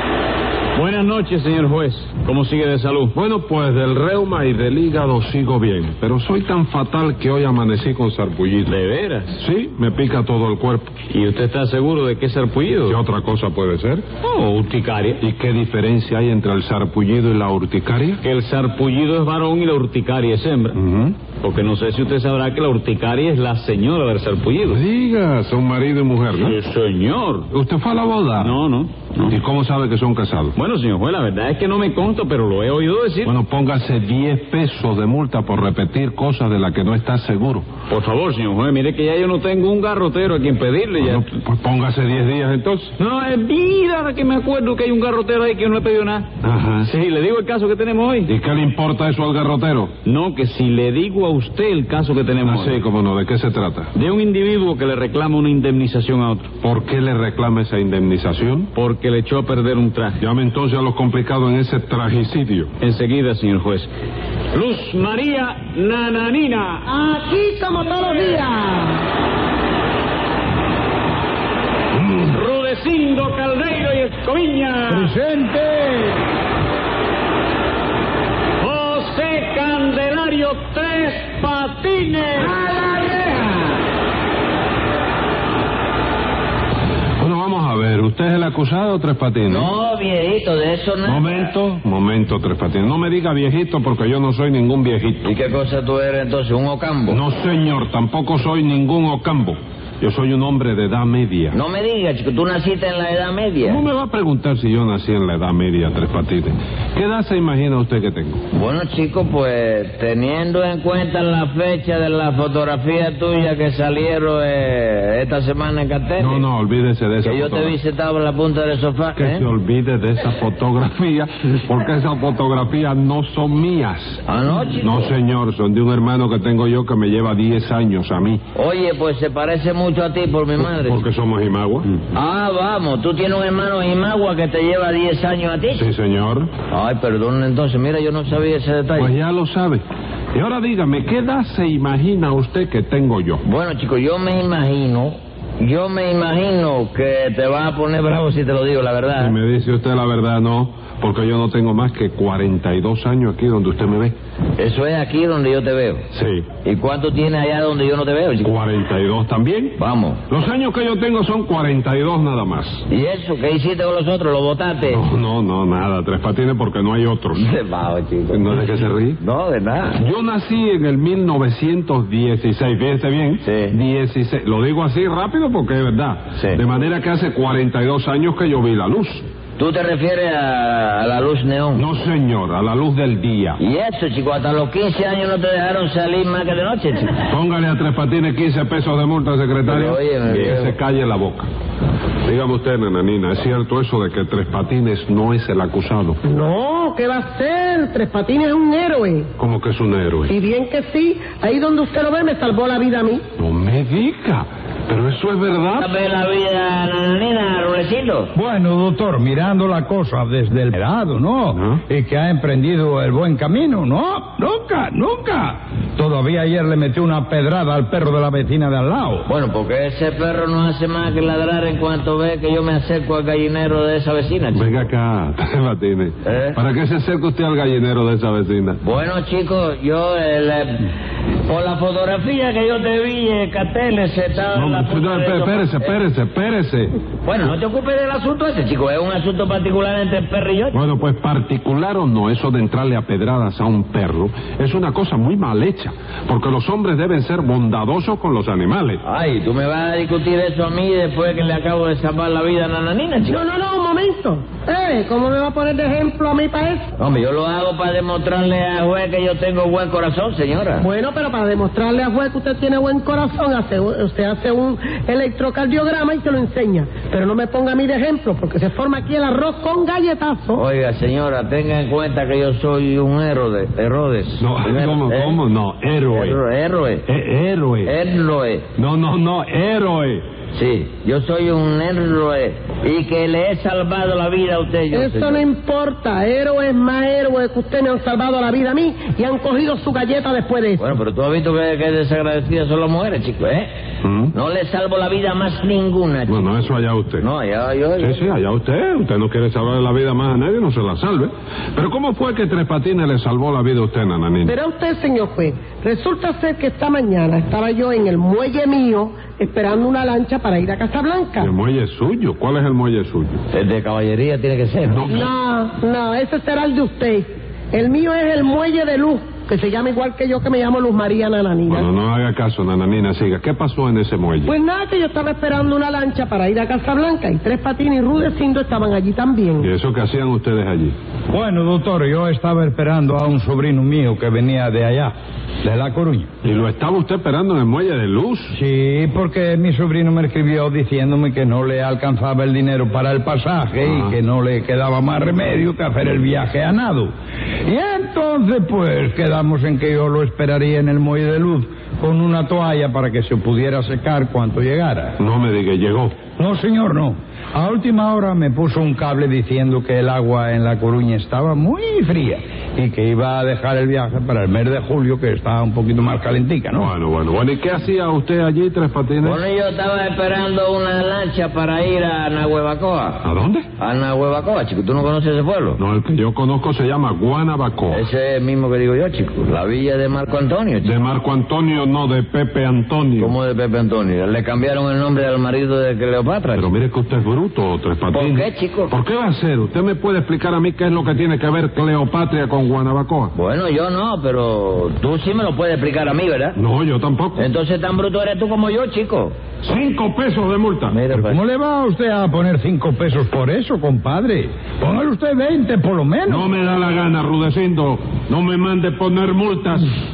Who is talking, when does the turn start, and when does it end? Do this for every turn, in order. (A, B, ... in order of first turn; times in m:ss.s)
0:00.7-0:03.1 A
0:03.1-0:08.7 B
0:08.7-0:09.4 A
0:09.4-0:11.0 B
0:11.1-0:13.0 A
0:12.8-0:14.0 B
0:14.2-0:15.2 A
0:15.2-0:18.2 B
0:18.2-0:24.8 A
0:20.7-0:21.2 B
0:24.7-0:26.6 B
0:26.3-0:27.5 A
0:27.5-0:28.6 B
0:28.3-0:29.4 A
0:29.2-0:30.5 B
0:30.6-0:33.3 A
0:33.2-0:37.7 B
0:37.9-0:41.3 A
0:41.0-0:43.0 B
0:43.0-0:46.3 A
0:46.4-0:46.9 B
0:46.8-0:48.3 A
0:48.3-0:50.0 B
0:50.0-0:52.8 A
0:52.4-0:53.9 B
0:53.9-0:56.5 A
0:56.6-0:58.7 B
0:58.8-1:00.2 A
1:00.2-1:02.7 B
1:02.8-1:03.9 A
1:04.5-1:06.9 A
1:06.9-1:09.0 C
1:12.0-1:15.1 A
1:14.9-1:16.2 D
1:18.6-1:22.6 A
1:22.6-1:23.6 C
1:27.2-1:29.7 B
1:29.4-1:31.5 E
1:31.0-1:35.3 B
1:35.2-1:37.2 E
1:37.1-1:41.6 B
1:41.5-1:43.8 E
1:43.6-1:48.4 B
1:48.5-1:56.4 E
1:56.2-1:57.8 B
1:57.2-1:59.5 E
1:59.2-2:04.2 B
2:04.2-2:05.1 E
2:04.8-2:08.4 B
2:08.5-2:11.0 E
2:10.6-2:11.9 B
2:12.1-2:15.8 E
2:15.7-2:16.5 B
2:16.7-2:19.1 E
2:19.0-2:19.8 B
2:20.3-2:23.4 B
2:23.4-2:29.3 E
2:29.2-2:34.2 B
2:34.6-2:36.0 E
2:36.1-2:36.5 B
2:36.6-2:38.5 E
2:38.4-2:39.8 B
2:39.8-2:40.2 E
2:40.3-2:42.8 B
2:42.9-2:45.1 E
2:44.9-2:47.5 B
2:47.3-2:48.6 E
2:48.3-2:49.2 B
2:49.2-2:50.0 E
2:50.0-2:59.2 B
2:53.4-2:53.7 E
2:59.6-3:01.8 E
3:01.8-3:03.6 B
3:03.6-3:07.1 E
3:07.3-3:11.5 B
3:09.6-3:10.8 E
3:12.2-3:16.2 B
3:16.3-3:19.3 C
3:19.4-3:20.4 B
3:20.3-3:23.2 C
3:23.4-3:25.8 B
3:25.8-3:28.3 E
3:28.3-3:39.3 D
3:31.5-3:31.8 B
3:39.2-3:44.7 E
3:44.5-3:48.8 B
3:46.2-3:46.6 E
3:48.8-3:50.9 E
3:51.5-3:56.0 E
3:54.5-3:56.9 B
3:57.2-4:00.8 E
4:00.7-4:09.0 B
4:09.0-4:13.4 E
4:13.3-4:16.8 C
4:17.0-4:20.8 E
4:20.8-4:30.6 C
4:30.5-4:35.4 E
4:34.4-4:36.4 B
4:36.1-4:37.0 E
4:37.0-4:37.9 B
4:37.8-4:38.6 E
4:38.8-4:40.2 B
4:40.5-4:45.5 E
4:44.9-4:50.9 C
4:50.8-4:53.7 E
4:54.0-4:54.3 B
4:54.3-4:58.2 E
4:56.3-4:57.2 B
4:58.0-5:04.5 B
5:04.4-5:11.5 C
5:11.4-5:13.4 B
5:13.5-5:15.1 E
5:14.9-5:15.3 B
5:15.1-5:21.9 C
5:21.7-5:24.5 B
5:24.5-5:29.7 C
5:29.6-5:30.9 B
5:31.3-5:36.3 D
5:36.4-5:38.5 B
5:38.5-5:47.1 D
5:43.8-5:44.2 B
5:47.6-5:55.2 D
5:55.2-5:56.2 B
5:56.4-6:06.9 D
6:06.7-6:09.4 B
6:09.2-6:13.2 E
6:13.2-6:13.7 B
6:13.8-6:15.8 E
6:15.8-6:18.0 B
6:17.9-6:20.9 E
6:20.8-6:23.3 B
6:23.2-6:26.7 E
6:26.5-6:33.3 B
6:28.1-6:28.9 E
6:33.3-6:36.6 E
6:36.6-6:37.5 B
6:37.4-6:39.4 E
6:39.6-6:41.0 B
6:40.9-6:41.4 E
6:41.1-6:46.5 D
6:46.3-6:49.9 B